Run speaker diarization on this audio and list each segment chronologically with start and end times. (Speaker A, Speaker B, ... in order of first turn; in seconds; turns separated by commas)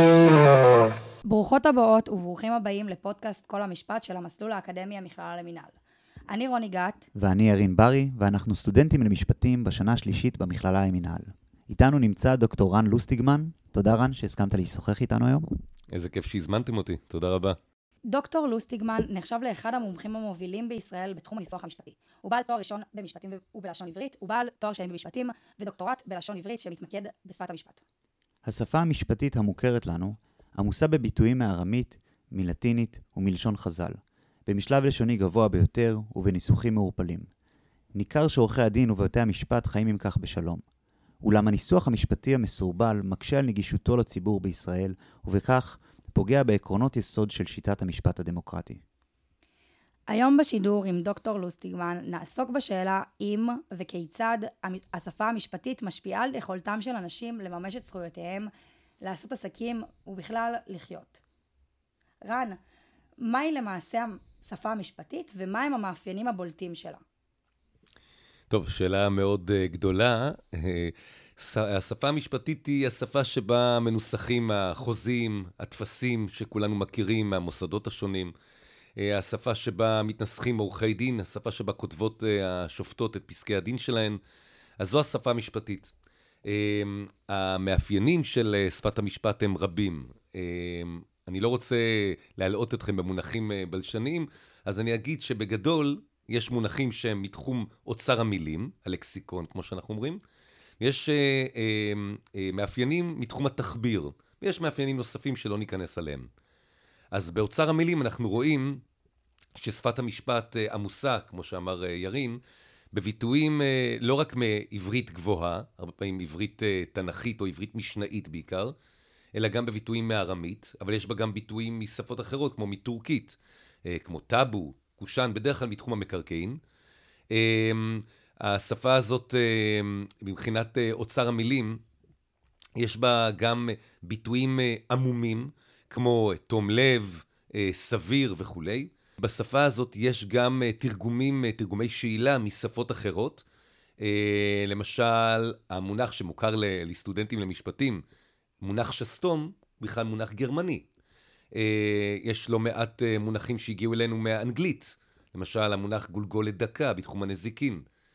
Speaker A: 1.3-5.8, Speaker A: 6.3-7.1, Speaker B: 7.2-15.5, Speaker C: 15.9-17.6, Speaker A: 18.1-27.8, Speaker B: 28.4-37.3, Speaker B: 37.9-40.6, Speaker B: 41.2-48.8, Speaker A: 50.1-61.2, Speaker A: 62.2-62.6, Speaker A: 63.2-67.0, Speaker C: 68.5-78.3, Speaker C: 79.0-84.2, Speaker C: 84.8-85.9, Speaker C: 86.5-100.2, Speaker C: 100.8-106.3, Speaker C: 107.1-108.8, Speaker C: 109.5-112.4, Speaker C: 112.9-118.8, Speaker C: 119.3-126.6, Speaker C: 127.3-131.8, Speaker C: 132.8-143.4, Speaker C: 144.0-148.0, Speaker C: 148.6-150.8, Speaker C: 151.5-157.8